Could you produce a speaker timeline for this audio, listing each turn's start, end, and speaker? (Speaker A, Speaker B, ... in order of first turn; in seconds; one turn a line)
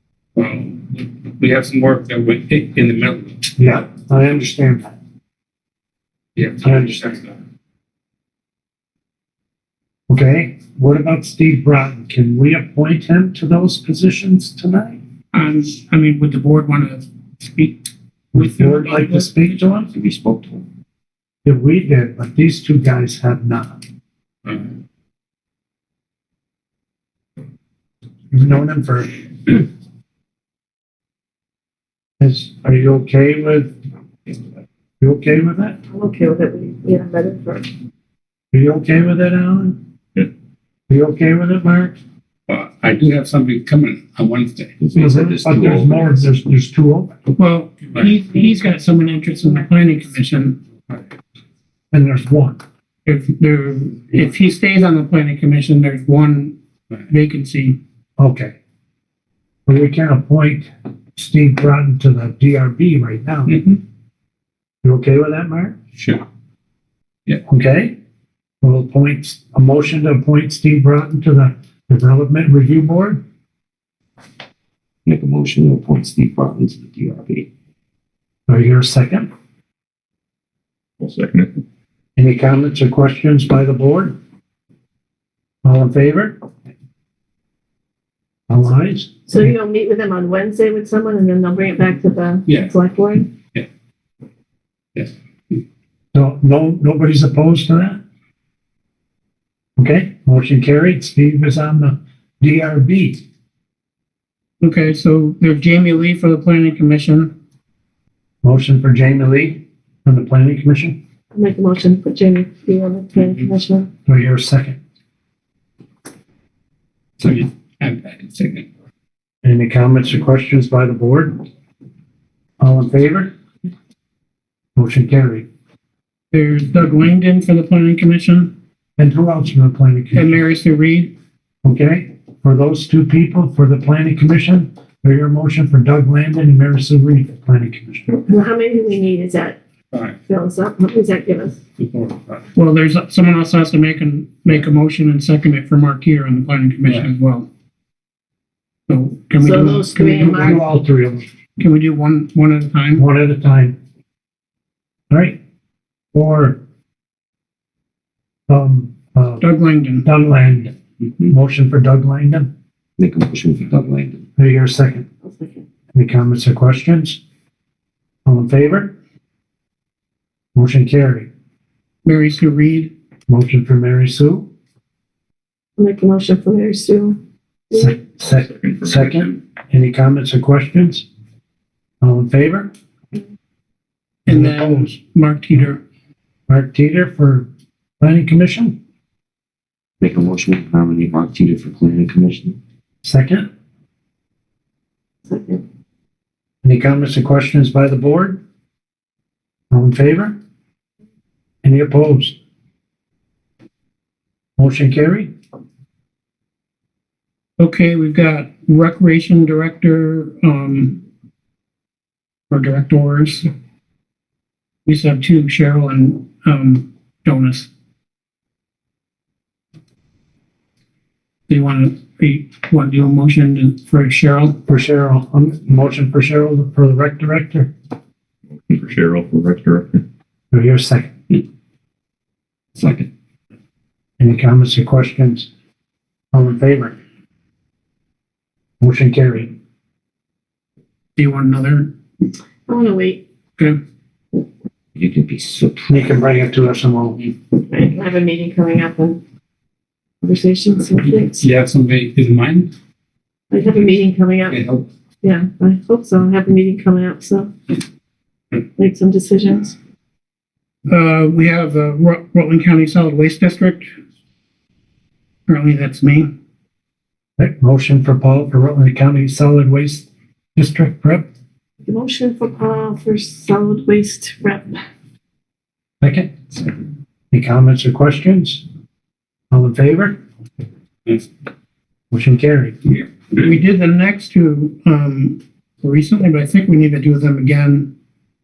Speaker A: 0.3-3.4
Speaker B: 3.6-5.0
Speaker A: 6.3-7.2
Speaker B: 6.6-7.2
Speaker B: 10.1-15.0
Speaker C: 15.3-19.3
Speaker B: 18.3-19.9
Speaker D: 19.9-20.6
Speaker B: 21.4-23.8
Speaker B: 28.3-29.6
Speaker B: 32.2-33.7
Speaker B: 35.0-35.8
Speaker E: 35.9-37.7
Speaker B: 38.5-39.8
Speaker B: 40.9-41.9
Speaker A: 42.5-44.8
Speaker D: 44.8-45.9
Speaker B: 45.0-47.1
Speaker F: 45.5-46.0
Speaker C: 47.4-50.6
Speaker A: 47.9-48.1
Speaker B: 51.9-52.6
Speaker C: 53.0-56.5
Speaker C: 57.1-57.8
Speaker B: 58.2-58.5
Speaker B: 59.7-63.5
Speaker A: 63.5-63.8
Speaker B: 64.8-65.8
Speaker A: 66.0-66.2
Speaker B: 67.5-67.9
Speaker B: 68.6-73.2
Speaker D: 75.0-77.5
Speaker B: 78.5-79.3
Speaker F: 81.0-81.6
Speaker B: 82.2-84.2
Speaker B: 85.6-86.4
Speaker B: 88.5-89.5
Speaker E: 89.3-93.3
Speaker A: 92.5-92.7
Speaker B: 96.1-98.0
Speaker B: 99.8-103.2
Speaker C: 104.6-107.3
Speaker B: 108.4-111.0
Speaker E: 111.3-113.9
Speaker B: 114.0-114.8
Speaker A: 117.2-118.7
Speaker B: 119.4-121.4
Speaker B: 122.6-123.3
Speaker B: 124.8-125.5
Speaker C: 126.3-128.5
Speaker B: 129.0-130.3
Speaker C: 130.1-131.1
Speaker B: 131.6-138.2
Speaker E: 138.3-139.6
Speaker A: 139.9-140.2
Speaker E: 140.3-141.6
Speaker A: 141.8-142.4
Speaker C: 142.5-147.5
Speaker A: 146.8-147.1
Speaker C: 148.9-150.6
Speaker E: 149.4-150.6
Speaker B: 150.2-151.3
Speaker C: 151.6-153.0
Speaker B: 152.9-153.8
Speaker B: 155.1-155.4
Speaker B: 156.1-156.6
Speaker B: 158.5-159.4
Speaker C: 159.4-160.1
Speaker B: 160.0-160.7
Speaker B: 161.3-162.5
Speaker D: 163.0-164.2
Speaker B: 164.4-165.1
Speaker E: 165.2-165.6
Speaker B: 165.9-167.2
Speaker B: 168.2-168.9
Speaker B: 170.5-171.3
Speaker C: 172.0-172.9
Speaker B: 173.3-174.5
Speaker E: 175.8-177.2
Speaker E: 177.7-178.0
Speaker B: 177.7-181.1
Speaker F: 178.3-179.4
Speaker B: 182.0-182.7
Speaker C: 184.2-185.8
Speaker B: 184.3-185.0
Speaker B: 186.5-187.5
Speaker B: 188.0-188.8
Speaker D: 190.0-192.6
Speaker B: 193.0-193.5
Speaker E: 195.3-195.6
Speaker B: 196.6-198.4
Speaker B: 199.7-200.3
Speaker B: 201.6-202.3
Speaker B: 204.6-205.3
Speaker C: 207.6-211.0
Speaker C: 212.5-213.5
Speaker C: 214.8-217.7
Speaker C: 221.5-224.6
Speaker B: 224.7-227.7
Speaker F: 228.7-230.0
Speaker B: 230.5-231.1
Speaker B: 234.2-235.5
Speaker B: 236.3-236.9
Speaker B: 238.8-239.5
Speaker C: 241.2-241.9
Speaker E: 242.7-243.2
Speaker D: 244.9-246.0
Speaker B: 245.9-247.3
Speaker E: 247.7-249.2
Speaker E: 250.2-251.4
Speaker A: 251.4-252.7
Speaker E: 253.5-254.6
Speaker A: 254.5-254.8
Speaker E: 255.2-257.5
Speaker E: 258.8-259.8
Speaker C: 260.9-263.9
Speaker C: 265.5-266.3
Speaker B: 267.4-271.3
Speaker E: 271.8-274.8
Speaker B: 276.0-276.5
Speaker B: 277.3-278.6
Speaker B: 279.5-280.2
Speaker B: 282.1-282.8
Speaker C: 283.3-287.9